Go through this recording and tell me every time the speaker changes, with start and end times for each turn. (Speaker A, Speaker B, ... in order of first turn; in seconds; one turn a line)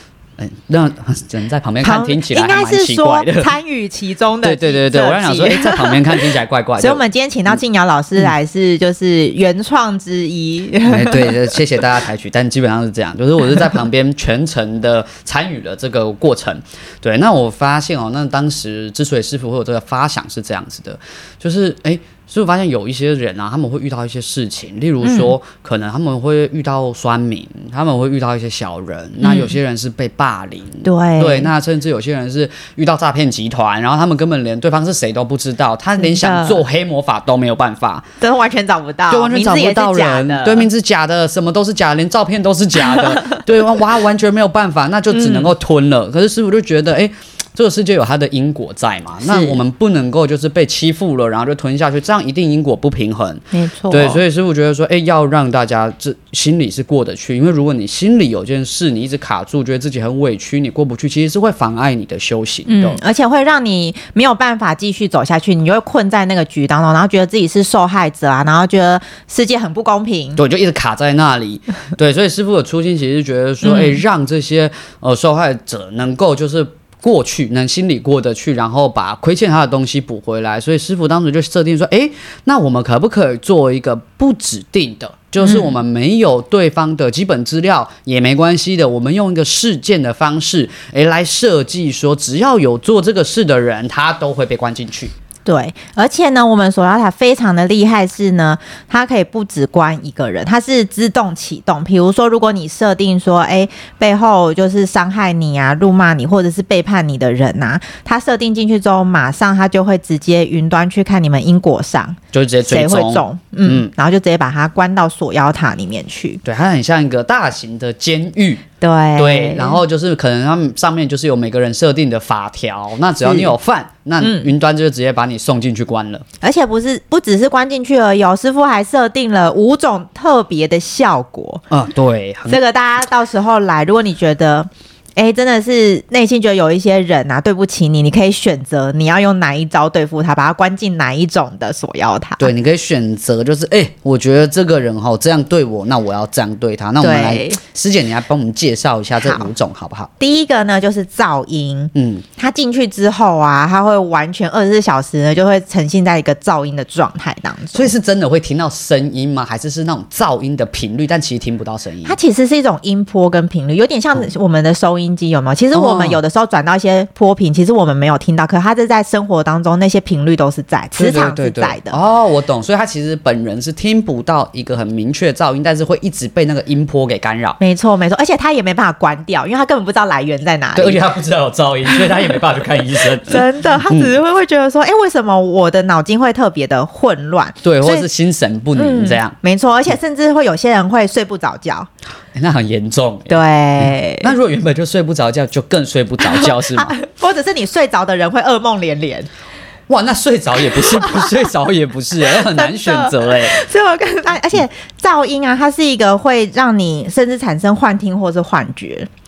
Speaker A: 0.4-3.5
Speaker B: 1.8-6.2
Speaker A: 4.4-7.0
Speaker B: 6.8-11.4
Speaker A: 10.8-38.0
Speaker B: 25.0-25.3
Speaker B: 29.2-29.5
Speaker B: 30.8-31.5
Speaker B: 36.0-36.6
Speaker B: 38.2-40.7
Speaker A: 39.1-63.0
Speaker B: 42.9-43.4
Speaker B: 45.1-45.5
Speaker B: 49.2-49.6
Speaker B: 53.5-54.2
Speaker B: 62.7-70.4
Speaker A: 70.4-95.1
Speaker B: 73.6-74.0
Speaker B: 85.4-85.7
Speaker B: 95.4-116.4
Speaker A: 112.3-113.9
Speaker A: 116.4-118.6
Speaker B: 118.8-119.8
Speaker A: 119.2-126.2
Speaker B: 123.2-123.5
Speaker B: 124.2-124.5
Speaker B: 126.4-131.6
Speaker A: 131.7-132.6
Speaker B: 132.5-142.5
Speaker A: 142.4-150.1
Speaker B: 147.0-147.6
Speaker B: 149.2-149.5
Speaker B: 150.2-157.9
Speaker A: 151.9-152.2
Speaker A: 157.7-162.2
Speaker B: 162.0-172.0
Speaker A: 165.7-166.2
Speaker A: 170.9-177.6
Speaker B: 177.6-181.0
Speaker A: 180.8-184.2
Speaker B: 183.3-188.1
Speaker A: 187.6-189.3
Speaker B: 188.7-191.9
Speaker A: 192.3-196.9
Speaker B: 193.3-194.3
Speaker B: 196.2-199.3
Speaker A: 199.9-203.6
Speaker B: 201.0-201.3
Speaker B: 202.2-209.1